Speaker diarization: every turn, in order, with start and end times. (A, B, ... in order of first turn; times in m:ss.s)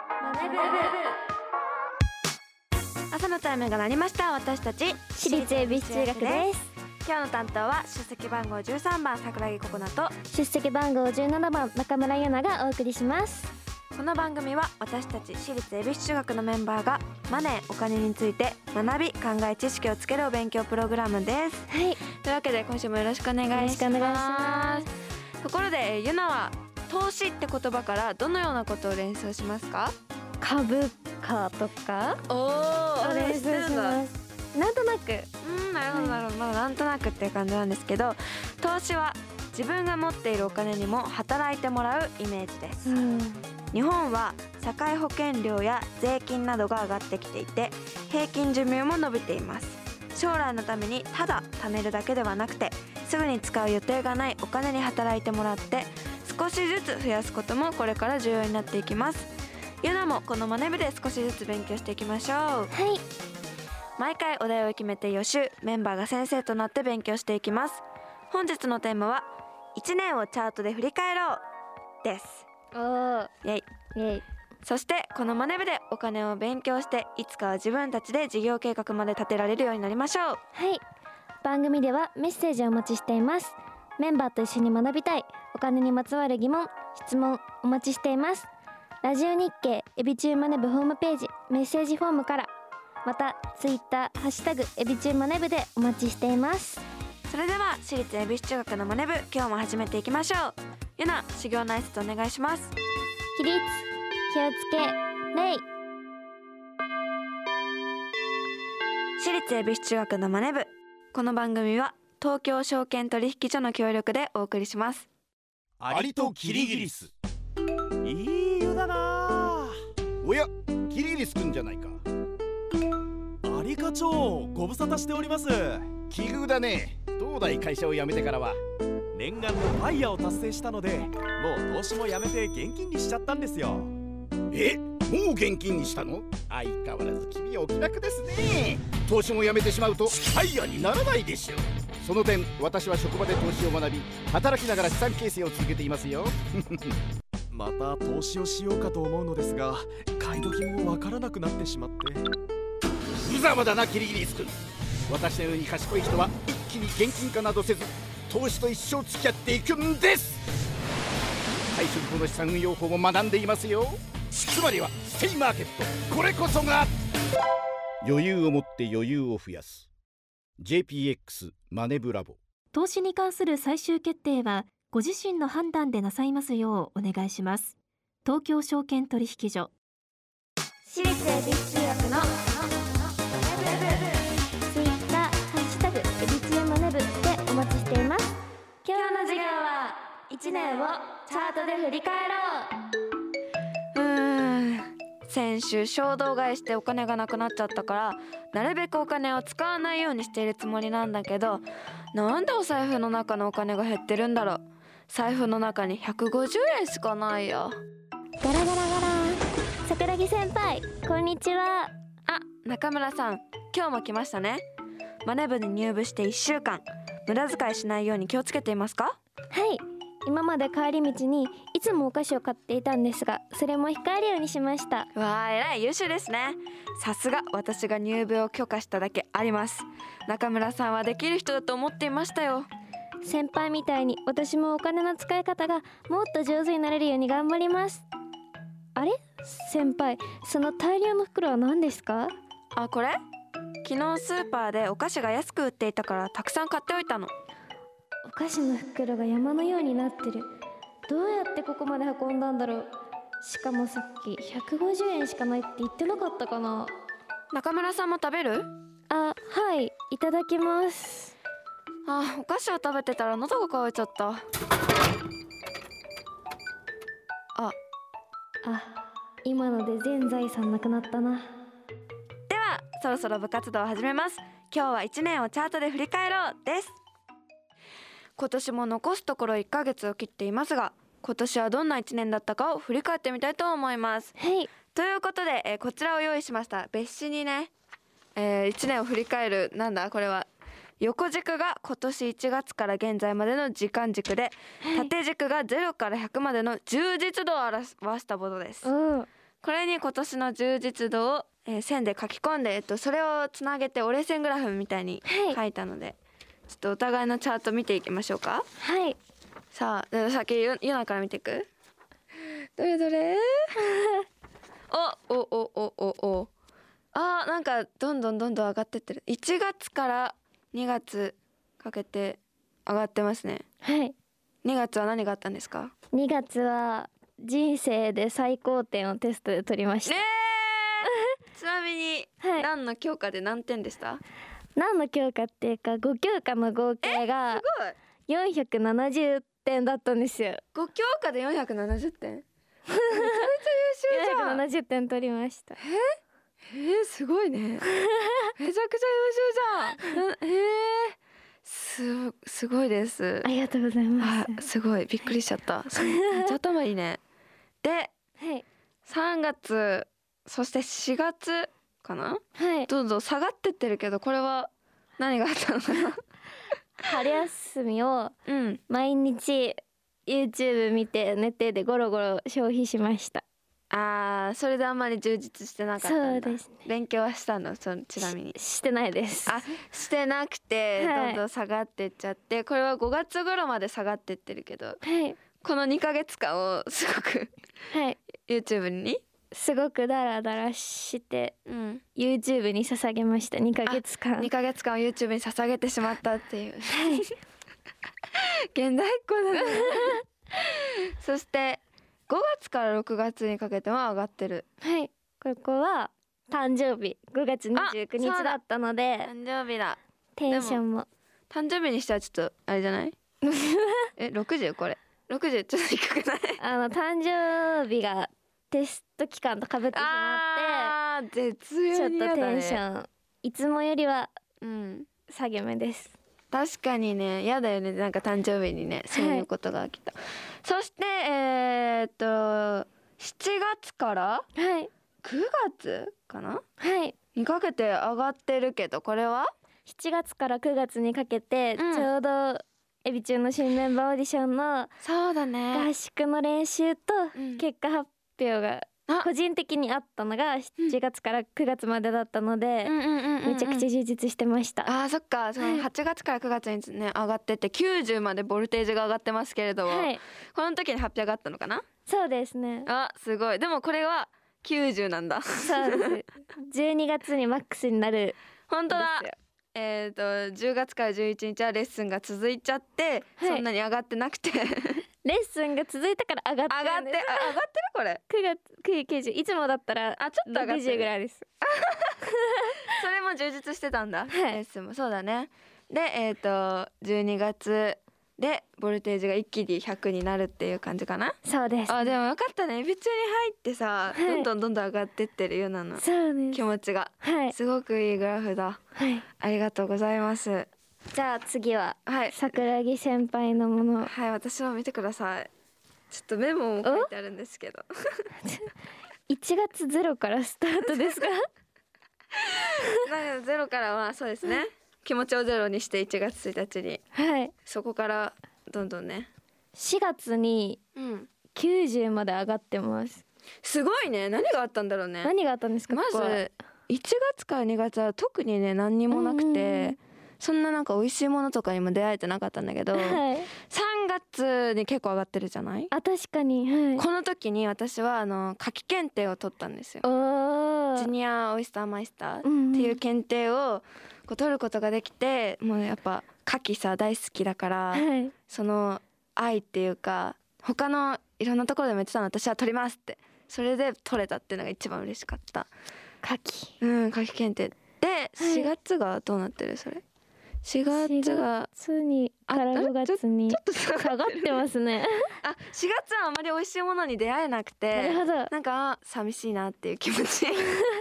0:00.2-0:01.0 A
0:00.4-0:01.1 B
0:03.1-0:06.5 B
0:05.2-0:06.7 A
0:07.0-0:10.2 B
0:10.3-0:13.5 A
0:14.0-0:24.9 B
0:21.7-0:22.0 A
0:23.5-0:24.9 A
0:25.4-0:30.0 B
0:30.4-0:32.2 A
0:32.3-0:34.0 B
0:33.0-0:35.3 A
0:35.4-0:43.0 B
0:35.9-0:36.2 A
0:42.8-0:43.4 A
0:43.7-0:59.3 B
0:59.8-1:02.7 B
1:02.7-1:03.0 A
1:04.0-1:11.4 B
1:12.0-1:12.5 B
1:12.7-1:13.3 A
1:14.0-1:14.2 A
1:14.6-1:20.4 B
1:20.5-1:20.8 A
1:21.4-1:28.5 A
1:29.0-1:32.5 A
1:33.0-1:36.8 A
1:37.3-1:42.7 B
1:43.4-1:45.6 A
1:49.2-1:55.1 B
1:55.8-1:57.1 C
1:55.9-1:57.1 D
1:58.0-1:59.7 C
2:00.2-2:02.0 D
2:03.4-2:06.0 C
2:06.0-2:08.6 D
2:09.1-2:13.9 C
2:14.5-2:26.9 D
2:27.5-2:32.2 C
2:33.2-2:34.5 D
2:35.1-2:40.4 D
2:41.7-2:46.9 D
2:48.0-2:49.9 D
2:50.6-2:52.4 D
2:52.7-2:59.7 E
3:00.9-3:02.3 A
3:01.9-3:02.4 B
3:03.4-3:03.9 A
3:03.5-3:04.2 B
3:04.7-3:09.4 A
3:08.9-3:10.0 B
3:10.3-3:12.7 A
3:10.6-3:11.1 B
3:13.9-3:27.8 B
3:28.4-3:31.9 A
3:32.3-3:34.6 B
3:35.2-3:39.2 B
3:39.5-3:45.1 A
3:45.2-3:52.7 B
3:53.2-3:58.0 A
3:59.0-4:02.3 A
4:02.8-4:03.2 B
4:03.8-4:07.3 B
4:08.2-4:10.5 A
4:11.1-4:12.9 A
4:13.4-4:16.9 A
4:17.5-4:18.7 B
4:19.1-4:21.3 A
4:22.1-4:24.4 B
4:28.6-4:31.5 A
4:32.5-4:37.0 B
4:38.4-4:44.4 B
4:44.4-4:44.7 A
4:44.9-4:47.7 B
4:48.4-4:50.5 B
4:51.0-4:58.9 B
4:58.8-4:59.3 A
4:59.6-5:06.2 B
5:05.3-5:05.6 A
5:06.7-5:08.6 B
5:08.8-5:09.2 A
5:09.7-5:11.7 B
5:12.8-5:13.5 B
5:14.9-5:16.5 B
5:17.1-5:23.7 B
5:23.8-5:24.1 A
5:24.6-5:25.9 B
5:26.1-5:30.2 A
5:30.1-5:34.2 B
5:32.4-5:32.7 A
5:34.8-5:37.6 A
5:37.0-5:38.0 B
5:38.3-5:40.6 A
5:40.7-5:42.4 B
5:43.0-5:43.4 A
5:43.1-5:44.6 B
5:44.1-5:45.8 A
5:45.8-5:46.2 B
5:46.7-5:47.9 B
5:48.6-5:53.5 B
5:53.4-5:54.6 A
5:54.2-5:57.2 B
5:57.8-5:58.1 B
5:58.4-5:58.6 A
5:59.1-6:06.2 B
6:02.6-6:02.9 A
6:07.0-6:08.3 A
6:08.5-6:08.8 B
6:08.9-6:13.4 A
6:13.9-6:18.6 B
6:16.0-6:16.7 A
6:18.2-6:19.6 A
6:19.5-6:25.0 B
6:21.0-6:21.4 A
6:25.0-6:25.4 A
6:25.6-6:27.6 B
6:27.9-6:28.2 A
6:28.5-6:29.2 B
6:29.5-6:31.6 A
6:31.7-6:32.0 B
6:32.2-6:34.5 A
6:33.9-6:37.3 B
6:36.9-6:37.2 A
6:38.4-6:40.2 B
6:39.6-6:40.1 A
6:41.2-6:44.7 B
6:44.8-6:49.3 A
6:47.8-6:48.6 B
6:49.2-6:50.8 B
6:50.4-6:51.1 A
6:51.5-6:53.2 B
6:53.5-6:54.1 A
6:54.2-6:56.6 B
6:56.6-7:00.9 A
6:59.9-7:02.8 B
7:01.9-7:04.3 A
7:04.6-7:05.1 B
7:05.3-7:06.1 A
7:06.5-7:14.5 B
7:09.1-7:09.5 A
7:14.6-7:14.9 A
7:15.2-7:16.6 B
7:16.8-7:17.2 A
7:17.4-7:19.5 B
7:19.9-7:24.9 A
7:21.8-7:22.1 B
7:25.0-7:25.9 B
7:25.7-7:34.9 A
7:27.4-7:27.6 B
7:32.8-7:33.9 B
7:34.9-7:41.8 B
7:35.6-7:35.9 A
7:39.9-7:40.2 A
7:42.1-7:42.9 A
7:42.9-7:46.1 B
7:45.6-7:48.4 A
7:48.7-7:55.0 B
7:48.9-7:49.3 A
7:53.4-7:53.6 A
7:55.2-7:57.6 A
7:56.7-7:58.2 B
7:58.3-8:01.4 A
8:00.2-8:01.1 B
8:01.8-8:02.2 B
8:02.9-8:11.4 B
8:04.3-8:04.6 A
8:11.4-8:12.1 A
8:11.9-8:18.8 B
8:14.1-8:14.5 A
8:16.0-8:16.6 A
8:17.2-8:17.5 A
8:19.0-8:19.2 A
8:19.4-8:20.7 B
8:21.1-8:24.1 A
8:22.1-8:22.6 B
8:24.0-8:25.5 B
8:26.1-8:28.3 B
8:26.8-8:27.1 A
8:28.4-8:28.7 A
8:29.3-8:31.4 A
8:33.0-8:37.0 B
8:37.1-8:37.5 A
8:37.6-8:39.3 B
8:39.8-8:40.8 A
8:41.0-8:41.3 B
8:41.5-8:43.2 A
8:43.6-8:45.3 B
8:45.2-8:46.4 A
8:45.9-8:55.9 B
8:49.1-8:50.0 A
8:52.9-8:53.5 A
8:55.9-8:57.0 A
8:57.0-9:00.1 B
9:00.0-9:01.1 A
9:01.0-9:15.7 B
9:02.4-9:03.0 A
9:07.9-9:08.3 A
9:16.2-9:16.8 A
9:16.8-9:20.0 B
9:18.4-9:18.7 A
9:20.6-9:21.7 B
9:20.9-9:25.3 A
9:22.5-9:24.6 B
9:25.4-9:30.8 B
9:27.9-9:28.5 A